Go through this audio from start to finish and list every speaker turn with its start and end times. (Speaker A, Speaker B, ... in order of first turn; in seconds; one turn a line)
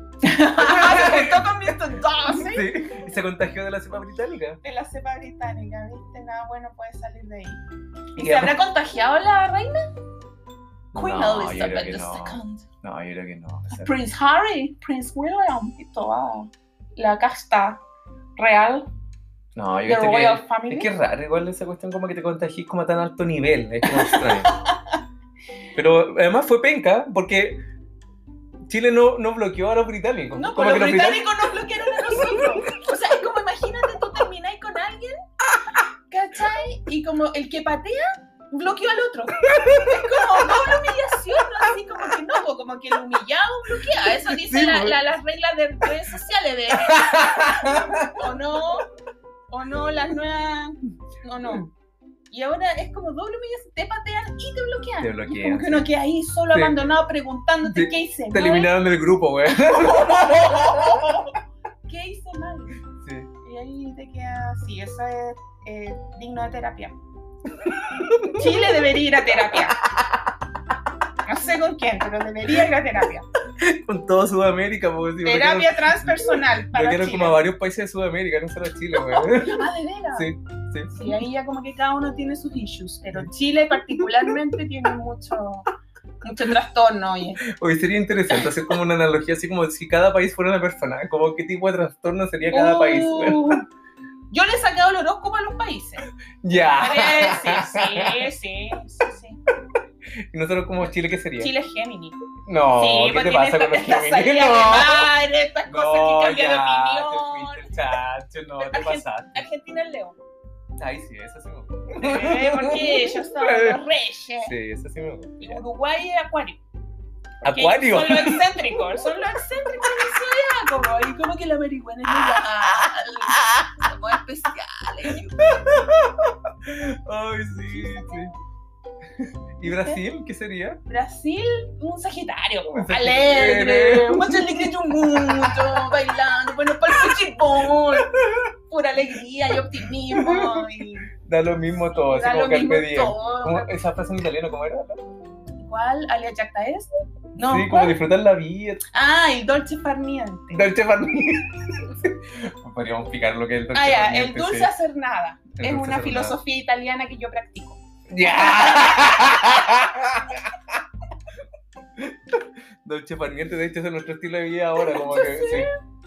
Speaker A: 0.2-2.7
Speaker B: 0.6-1.5
Speaker B: 2.3-4.6
Speaker A: 4.6-7.6
Speaker A: 8.2-9.9
Speaker B: 8.2-8.6
Speaker B: 10.9-13.9
Speaker A: 10.9-12.7
Speaker A: 13.7-17.8
Speaker A: 18.4-18.9
Speaker B: 19.6-24.5
Speaker A: 19.9-20.9
Speaker A: 23.9-25.0
Speaker B: 25.8-27.6
Speaker B: 28.7-31.3
Speaker A: 30.3-35.2
Speaker B: 32.0-32.6
Speaker A: 36.1-48.9
Speaker B: 39.5-40.7
Speaker B: 44.3-45.0
Speaker B: 46.8-48.3
Speaker A: 49.5-51.7
Speaker A: 52.3-58.7
Speaker B: 55.0-55.9
Speaker B: 56.5-56.9
Speaker B: 57.6-61.3
Speaker A: 59.7-61.3
Speaker A: 61.9-62.8
Speaker B: 62.9-63.3
Speaker A: 63.4-67.0
Speaker B: 67.5-68.6
Speaker A: 68.2-69.8
Speaker B: 69.4-70.2
Speaker A: 71.2-73.3
Speaker B: 73.6-81.2
Speaker A: 75.2-77.4
Speaker A: 79.0-80.3
Speaker A: 80.9-85.7
Speaker B: 84.0-84.4
Speaker A: 86.2-87.4
Speaker B: 87.4-93.6
Speaker A: 92.5-93.7
Speaker A: 94.3-96.1
Speaker B: 96.4-98.3
Speaker A: 96.7-99.4
Speaker B: 100.2-101.5
Speaker A: 101.4-102.2
Speaker B: 102.5-105.1
Speaker A: 102.7-107.8
Speaker B: 105.7-109.5
Speaker A: 108.6-110.2
Speaker B: 110.8-113.8
Speaker A: 112.0-114.5
Speaker B: 114.4-115.6
Speaker A: 115.4-116.6
Speaker A: 117.4-125.8
Speaker B: 117.4-118.8
Speaker B: 125.4-128.3
Speaker A: 127.7-128.3
Speaker B: 129.2-130.8
Speaker A: 129.7-130.0
Speaker A: 130.9-141.1
Speaker B: 132.7-135.9
Speaker B: 138.1-138.5
Speaker B: 140.1-140.7
Speaker B: 141.2-145.1
Speaker A: 141.9-143.7
Speaker A: 145.6-148.0
Speaker B: 147.4-148.8
Speaker A: 148.9-150.7
Speaker B: 150.5-154.7
Speaker A: 153.7-159.8
Speaker B: 155.6-156.4
Speaker B: 158.1-160.8
Speaker B: 162.0-165.7
Speaker A: 164.8-165.8